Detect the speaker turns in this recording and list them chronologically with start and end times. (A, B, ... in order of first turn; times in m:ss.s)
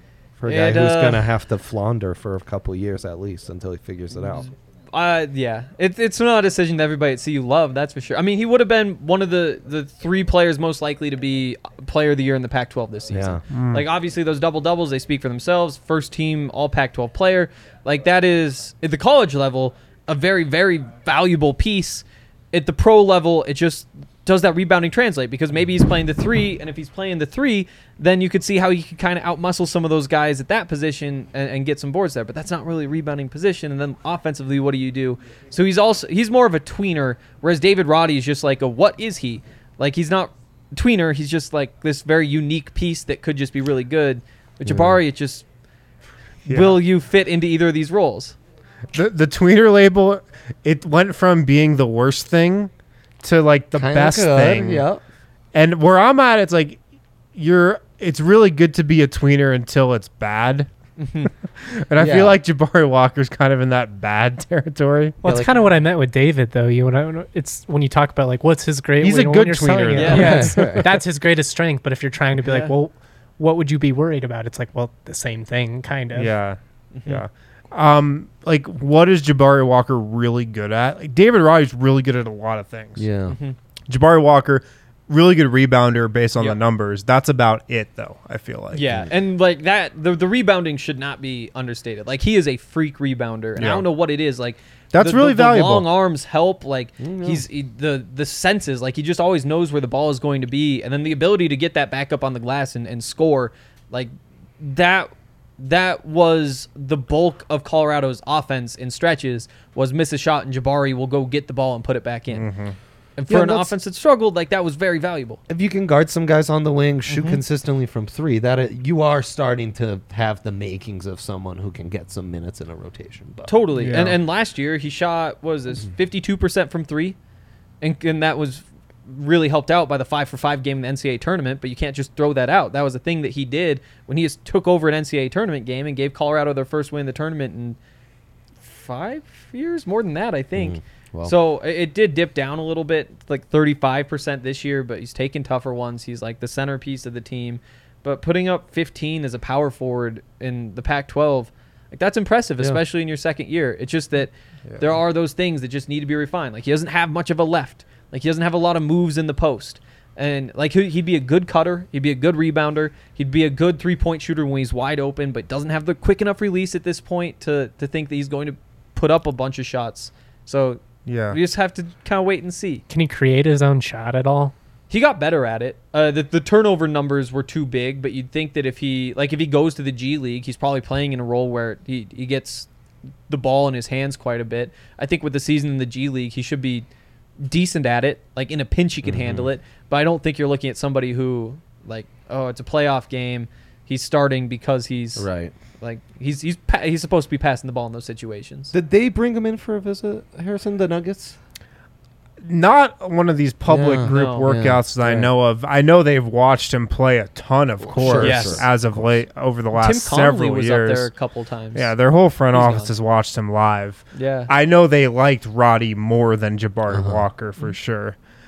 0:00.4-0:04.5 A
0:00.5-0:01.2 B
0:04.3-0:45.4 B
0:13.1-0:13.4 A
0:13.5-0:13.9 C
0:44.7-0:45.0 A
0:46.5-0:48.4 B
0:46.5-0:46.8 C
0:48.9-0:52.7 C
0:53.2-0:54.9 C
0:53.7-0:55.0 A
0:55.5-0:56.8 C
0:57.4-1:00.7 C
1:01.0-1:01.3 B
1:01.6-1:05.2 C
1:02.0-1:02.4 A
1:05.2-1:16.3 D
1:05.2-1:05.6 A
1:09.0-1:10.9 C
1:09.9-1:10.5 B
1:10.0-1:10.9 A
1:12.4-1:12.7 B
1:16.1-1:23.1 C
1:17.0-1:17.2 B
1:23.0-1:23.4 A
1:23.3-1:23.6 B
1:23.9-1:29.0 C
1:28.7-1:52.5 B
1:33.6-1:33.9 C
1:34.9-1:35.9 C
1:37.0-1:37.4 A
1:52.3-1:52.8 C
1:53.2-1:55.4 B
1:53.3-1:53.7 A
1:55.5-2:03.5 A
1:57.1-1:57.4 B
2:03.5-2:07.2 B
2:03.8-2:04.2 C
2:07.8-2:17.8 B
2:18.6-2:52.8 B
2:20.6-2:21.3 A
2:51.1-2:51.4 C
2:52.9-2:54.5 D
2:54.9-3:02.7 B
3:03.3-3:06.9 B
3:07.4-3:15.3 B
3:09.0-3:09.5 A
3:15.2-3:15.5 A
3:15.8-3:18.7 B
3:18.7-3:21.4 A
3:22.4-3:31.1 C
3:23.7-3:25.3 A
3:24.1-3:24.6 B
3:27.9-3:29.1 A
3:28.1-3:28.6 B
3:29.7-3:31.9 B
3:31.7-3:38.2 C
3:32.5-3:32.9 B
3:34.1-3:34.5 B
3:36.9-3:37.2 A